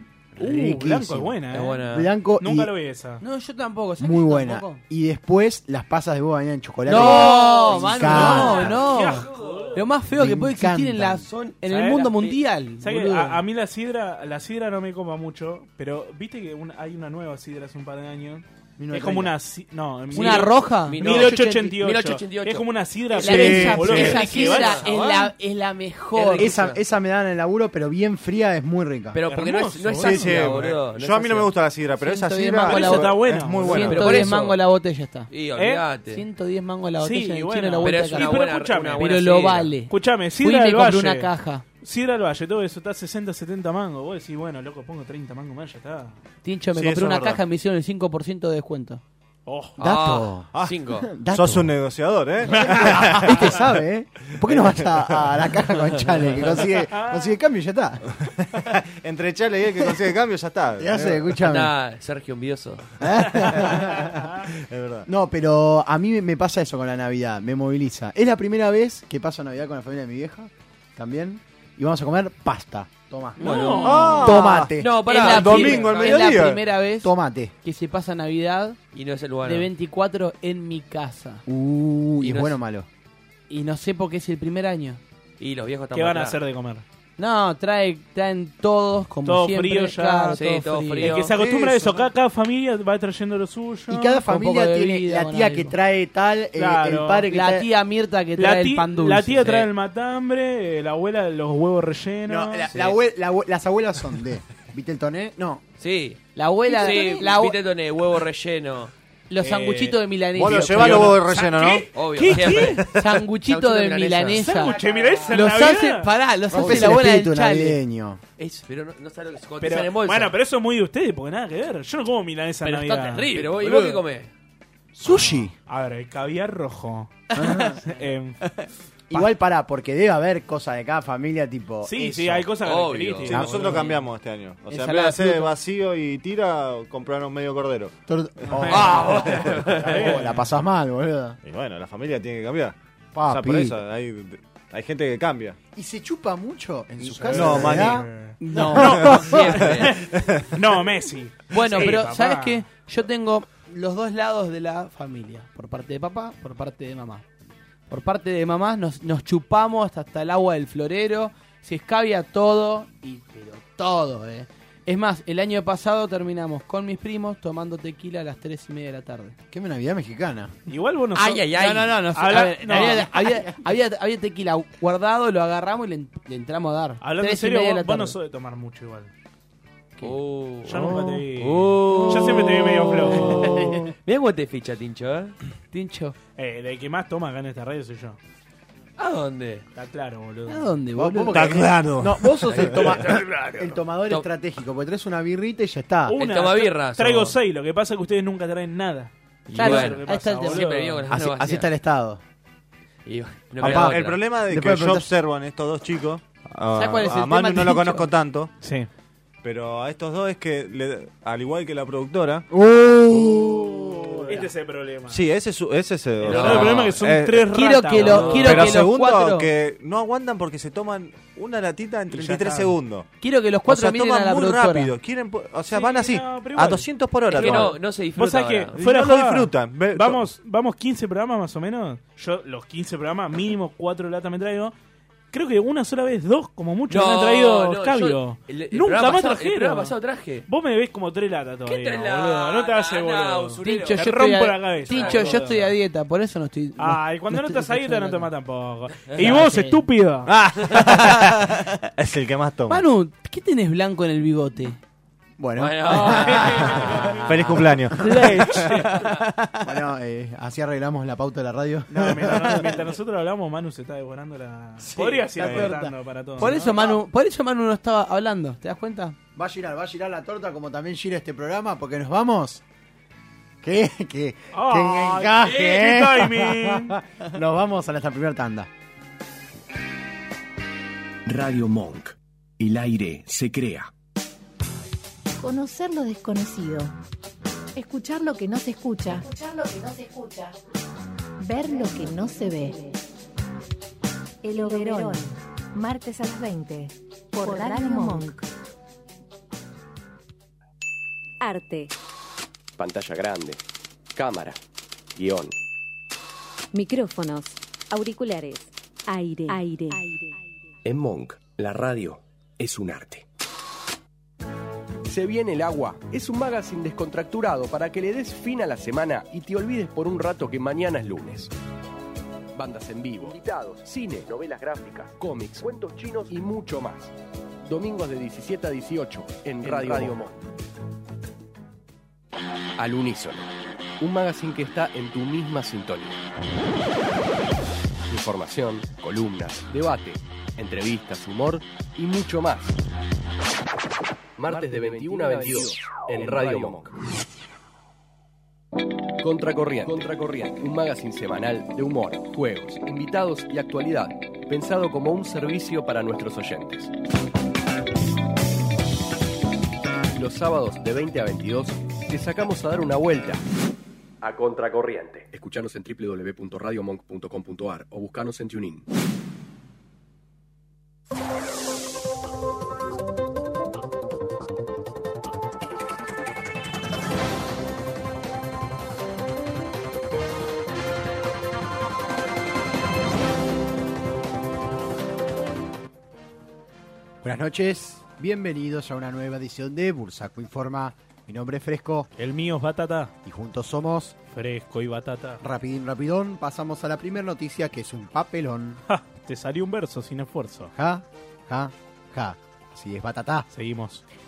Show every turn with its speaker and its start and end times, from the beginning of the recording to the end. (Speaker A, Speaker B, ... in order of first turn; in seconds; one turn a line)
Speaker A: 0.4-2.7
Speaker B: 0.4-1.9
Speaker C: 1.5-2.1
Speaker B: 2.4-3.2
Speaker D: 3.2-4.8
Speaker A: 4.0-8.8
Speaker C: 6.9-9.8
Speaker D: 6.9-13.4
Speaker B: 8.0-9.9
Speaker A: 10.1-11.2
Speaker C: 11.2-12.4
Speaker B: 11.7-12.3
Speaker B: 12.8-25.1
Speaker A: 18.8-19.4
Speaker D: 20.1-21.5
Speaker C: 20.1-22.7
Speaker D: 23.1-26.5
Speaker E: 23.4-24.1
Speaker C: 24.2-25.2
Speaker C: 26.1-26.8
Speaker A: 26.4-29.2
Speaker C: 29.1-31.5
Speaker B: 29.3-30.5
Speaker E: 30.0-34.1
Speaker D: 31.9-35.3
Speaker B: 32.6-34.3
Speaker C: 33.9-34.6
Speaker C: 35.3-36.3
Speaker B: 35.6-35.9
Speaker D: 36.1-38.4
Speaker B: 37.0-39.2
Speaker C: 37.8-39.8
Speaker D: 39.0-41.7
Speaker B: 39.9-46.2
Speaker D: 46.4-49.0
Speaker E: 46.8-47.4
Speaker B: 49.5-49.8
Speaker C: 49.8-51.1
Speaker A: 49.8-51.7
Speaker E: 51.3-53.5
Speaker B: 52.5-53.1
Speaker A: 52.5-58.0
Speaker E: 54.5-55.2
Speaker B: 56.9-57.3
Speaker E: 58.6-61.2
Speaker A: 60.8-61.7
Speaker C: 61.4-62.9
Speaker A: 63.0-64.4
Speaker E: 64.5-65.1
Speaker A: 65.1-74.9
Speaker B: 73.4-74.3
Speaker C: 73.4-76.3
Speaker E: 73.8-76.6
Speaker D: 75.1-77.1
Speaker A: 77.0-77.5
Speaker D: 77.6-78.8
Speaker C: 78.9-79.7
Speaker D: 79.4-81.4
Speaker A: 81.5-82.9
Speaker C: 82.2-82.5
Speaker D: 83.5-85.0
Speaker C: 85.4-86.4
Speaker B: 85.9-86.8
Speaker D: 87.2-91.2
Speaker B: 89.2-90.4
Speaker C: 90.3-91.3
Speaker B: 91.0-94.2
Speaker A: 91.3-92.1
Speaker A: 93.9-97.7
Speaker D: 94.1-95.7
Speaker B: 96.6-97.3
Speaker D: 97.2-99.7
Speaker B: 98.4-102.7
Speaker A: 102.3-105.6
Speaker C: 102.7-103.0
Speaker C: 105.8-108.9
Speaker D: 106.3-107.6
Speaker D: 109.3-111.4
Speaker B: 109.4-110.0
Speaker E: 110.3-111.9
Speaker B: 110.5-112.9
Speaker C: 111.9-112.8
Speaker E: 112.8-113.1
Speaker D: 112.9-117.8
Speaker C: 113.4-115.2
Speaker B: 114.4-116.2
Speaker A: 116.5-118.2
Speaker C: 118.4-120.3
Speaker B: 119.6-124.0
Speaker D: 122.6-123.4
Speaker C: 123.1-124.3
Speaker A: 125.0-125.5
Speaker B: 125.1-128.4
Speaker A: 127.4-127.8
Speaker D: 127.4-127.7
Speaker A: 129.1-132.5
Speaker B: 131.8-134.0
Speaker C: 132.6-133.8
Speaker E: 133.3-138.0
Speaker A: 133.4-133.8
Speaker A: 134.7-135.3
Speaker D: 134.8-135.4
Speaker A: 138.1-141.4
Speaker C: 138.7-140.3
Speaker B: 139.9-140.4
Speaker E: 141.4-145.6
Speaker A: 143.1-143.8
Speaker A: 145.7-149.2
Speaker E: 147.0-148.1
Speaker B: 147.3-152.7
Speaker D: 148.4-149.0
Speaker C: 149.1-150.0
Speaker E: 150.1-150.4
Speaker D: 151.5-157.3
Speaker D: 157.9-169.4
Speaker A: 169.5-170.6
Speaker B: 170.7-173.1
Speaker C: 171.2-172.6
Speaker D: 171.5-178.1
Speaker B: 177.0-179.1
Speaker C: 180.0-185.3
Speaker B: 180.7-183.7
Speaker D: 185.7-186.2
Speaker B: 186.4-188.2
Speaker C: 189.0-189.7
Speaker B: 189.7-190.8
Speaker D: 190.5-191.6
Speaker A: 190.9-196.2
Speaker E: 191.3-192.2
Speaker C: 192.5-194.3
Speaker B: 196.1-201.1
Speaker C: 196.1-197.3
Speaker C: 199.5-201.7
Speaker D: 199.6-200.8
Speaker A: 201.1-202.2
Speaker C: 203.1-204.2
Speaker E: 203.6-208.5
Speaker A: 203.6-205.1
Speaker D: 206.7-208.1
Speaker B: 208.6-208.9
Speaker E: 209.4-212.5
Speaker A: 212.5-214.4
Speaker B: 214.3-215.2
Speaker E: 215.1-223.1
Speaker C: 216.2-216.8
Speaker B: 216.2-218.8
Speaker D: 217.5-219.5
Speaker C: 218.1-218.7
Speaker B: 222.1-222.8
Speaker D: 223.2-224.9
Speaker E: 223.7-227.8
Speaker B: 225.7-234.8
Speaker C: 227.3-228.8
Speaker E: 228.8-230.2
Speaker B: 235.3-239.9
Speaker C: 236.9-240.5
Speaker B: 240.5-245.8
Speaker C: 241.7-244.1
Speaker D: 243.6-248.3
Speaker C: 244.8-245.5
Speaker B: 246.8-251.0
Speaker C: 249.1-249.3
Speaker D: 249.3-249.8
Speaker E: 250.3-252.8
Speaker D: 252.7-254.8
Speaker A: 255.4-258.4
Speaker C: 255.6-257.2
Speaker B: 257.0-259.1
Speaker E: 257.3-258.1
Speaker D: 259.1-259.5
Speaker A: 259.6-262.9
Speaker B: 261.9-266.9
Speaker A: 264.8-265.6
Speaker D: 265.3-269.2
Speaker E: 265.4-265.7
Speaker A: 266.5-267.0
Speaker A: 269.4-272.6
Speaker A: 273.6-278.7
Speaker B: 274.5-276.9
Speaker F: 281.3-283.9
Speaker G: 285.4-286.9
Speaker G: 287.8-290.6
Speaker G: 291.4-293.0
Speaker G: 294.4-298.5
Speaker H: 294.5-295.2
Speaker H: 297.4-298.3
Speaker H: 301.4-301.9
Speaker F: 302.8-303.6
Speaker F: 304.1-304.6
Speaker F: 305.1-305.6
Speaker H: 306.7-310.4
Speaker F: 310.8-313.3
Speaker F: 315.1-321.5
Speaker F: 322.6-327.1
Speaker F: 327.6-330.4
Speaker F: 332.8-336.2
Speaker F: 338.1-342.8
Speaker F: 344.4-346.9
Speaker D: 344.7-345.3
Speaker F: 349.2-356.9
Speaker F: 360.1-363.4
Speaker F: 364.2-368.9
Speaker A: 387.2-392.1
Speaker B: 392.2-393.1
Speaker A: 393.2-394.2
Speaker B: 394.3-395.4
Speaker A: 395.4-398.8
Speaker B: 398.9-400.7
Speaker A: 400.7-403.5
Speaker B: 403.5-404.0